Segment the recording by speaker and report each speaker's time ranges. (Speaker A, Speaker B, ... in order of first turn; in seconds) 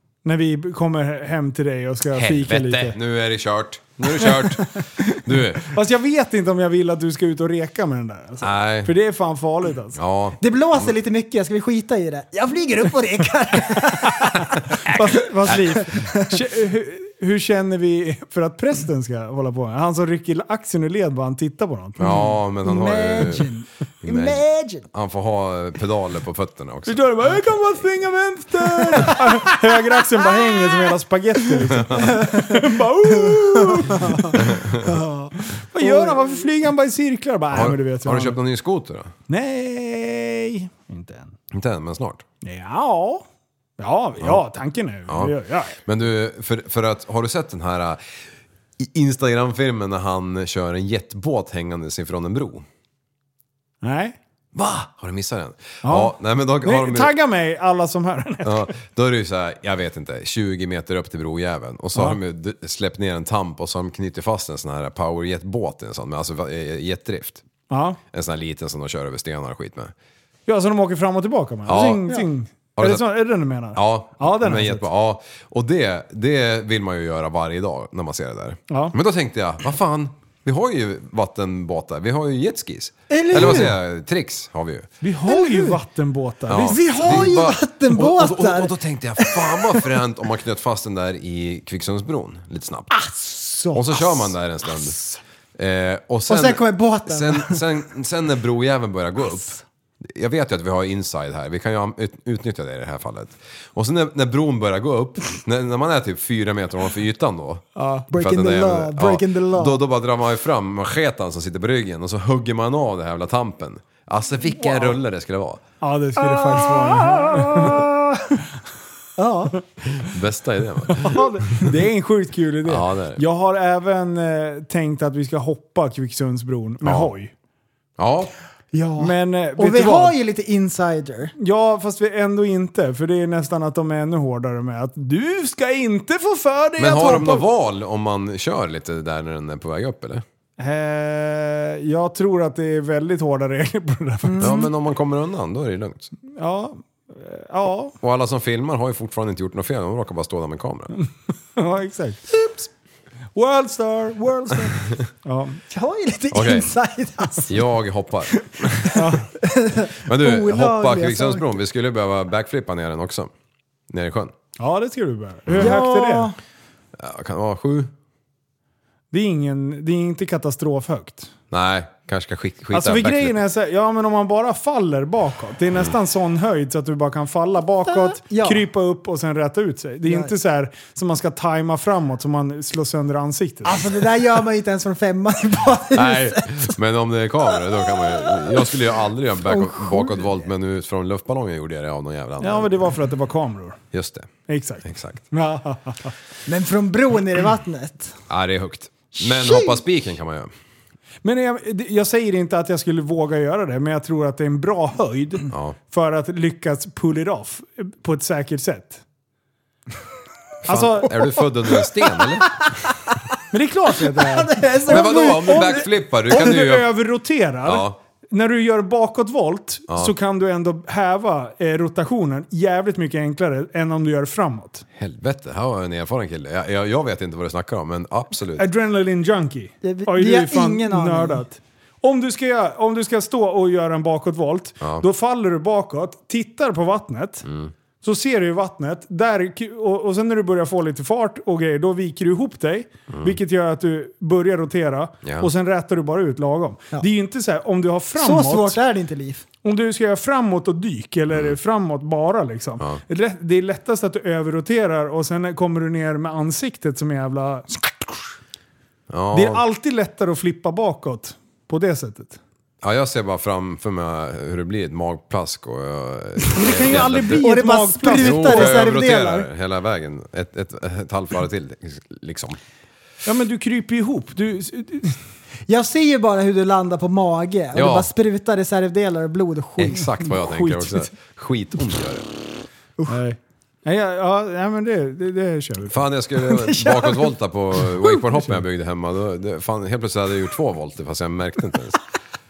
Speaker A: 0.2-3.0, 4.2-4.5, 5.6-10.0, 14.8-22.2, 26.9-38.4, 39.3-41.4, 42.4-43.2, 43.8-45.8, 53.8-54.2, 55.8-58.7, 67.7-68.0, 70.5-74.8, 78.7-79.0, 83.3-83.7, 85.0-87.3, 107.8-108.1, 114.7-114.9, 115.8-118.4, 121.0-127.3, 129.0-130.2, 131.4-137.4, 140.6-144.7, 146.4-148.0, 150.9-152.2, 153.3-155.6, 159.0-159.3, 164.6-166.3, 169.1-171.3, 172.7-184.0, 192.4-193.8, 194.5-196.1, 201.2-209.0, 210.7-211.3, 213.5-224.8, 228.6-237.5, 238.0-248.8, 249.6-258.3, 259.3-262.4, 266.6-268.8, 273.2-275.2, 280.4-281.1, 283.1-286.0
Speaker B: 2.1-5.7, 8.4-8.9, 9.9-10.9, 22.0-23.5, 24.0-27.4, 31.8-32.1, 34.5-34.8, 37.5-39.1, 41.5-42.3, 44.2-44.5, 45.1-48.1, 48.8-52.7, 54.5-57.1, 58.4-67.4, 68.1-69.9, 71.7-72.1, 72.8-73.1, 73.7-84.9, 86.5-93.0, 93.7-95.0, 95.6-115.6, 119.9-121.7, 122.7-123.2, 126.8-127.1, 128.0-128.3, 136.8-140.2, 144.4-146.1, 148.0-150.9, 154.6-155.0, 156.3-156.7, 157.5-159.0, 160.1-163.3, 163.9-164.3, 165.5-165.7, 167.0-167.9, 171.5-173.4, 185.9-192.9, 193.9-194.3, 194.8-195.2, 198.3-200.5, 205.5-205.8, 210.6-212.6, 214.9-216.9, 217.6-218.0, 219.9-220.2, 224.9-228.7, 234.8-235.1, 237.4-237.7, 243.1-243.4, 245.2-245.5, 251.3-251.6, 259.1-259.6, 262.8-267.5, 268.1-272.6, 277.7-278.1, 279.8-282.3, 285.9-292.0
Speaker C: 10.4-14.8, 15.7-16.4, 22.1-24.9, 28.6-30.9, 32.0-32.7, 33.2-36.3, 83.1-83.7, 85.3-85.8, 86.6-89.8, 93.0-94.1, 96.3-97.6, 108.1-109.8, 116.2-117.8, 119.2-119.6, 128.7-131.3, 144.2-144.7, 152.3-152.7, 155.7-157.6, 158.4-161.5, 165.6-166.4, 177.9-178.7, 180.1-180.3, 183.7-186.8, 187.9-188.6, 189.4-190.4, 196.5-198.2, 199.1-199.8, 214.1-215.6, 229.8-231.4, 248.2-249.4, 266.8-269.5, 275.7-280.3, 286.4-287.3